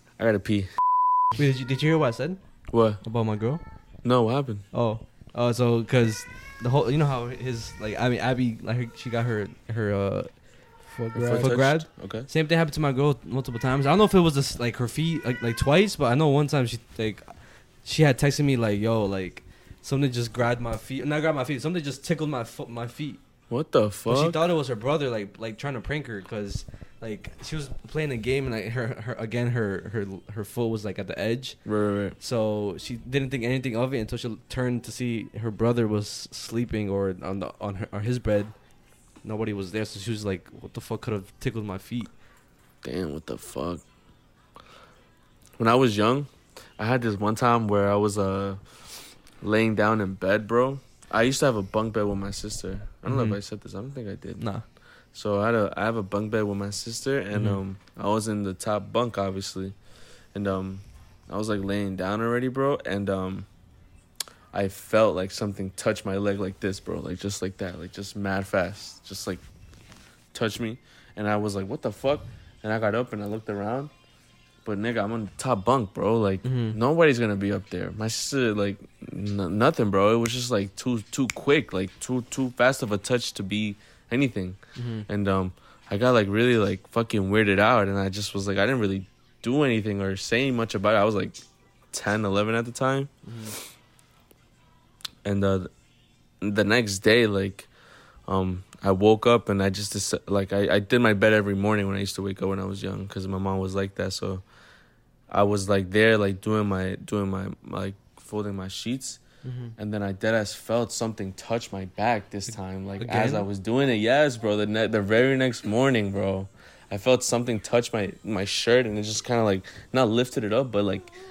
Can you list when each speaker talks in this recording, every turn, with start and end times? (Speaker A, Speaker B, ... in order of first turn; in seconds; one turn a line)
Speaker A: 0.2-0.7
Speaker B: 1.4-2.4
Speaker A: 2.7-3.0
Speaker B: 3.0-3.6
Speaker A: 4.0-4.7
Speaker B: 4.7-23.2
Speaker A: 11.1-12.3
Speaker A: 23.5-24.4
Speaker B: 24.1-31.6
Speaker A: 31.7-32.1
Speaker B: 32.2-38.5
Speaker B: 39.2-42.1
Speaker A: 42.8-43.9
Speaker A: 45.6-48.6
Speaker A: 49.4-54.5
Speaker B: 53.1-53.4
Speaker B: 54.4-54.6
Speaker A: 55.1-59.8
Speaker B: 57.3-57.6
Speaker A: 60.3-63.5
Speaker A: 64.5-69.4
Speaker A: 70.3-73.9
Speaker A: 74.6-93.1
Speaker B: 76.5-76.8
Speaker B: 84.8-85.1
Speaker B: 93.2-93.6
Speaker A: 95.2-95.7
Speaker A: 96.4-97.7
Speaker A: 98.3-104.4
Speaker A: 105.3-109.2
Speaker B: 109.4-109.8
Speaker A: 109.8-121.1
Speaker B: 112.5-113.5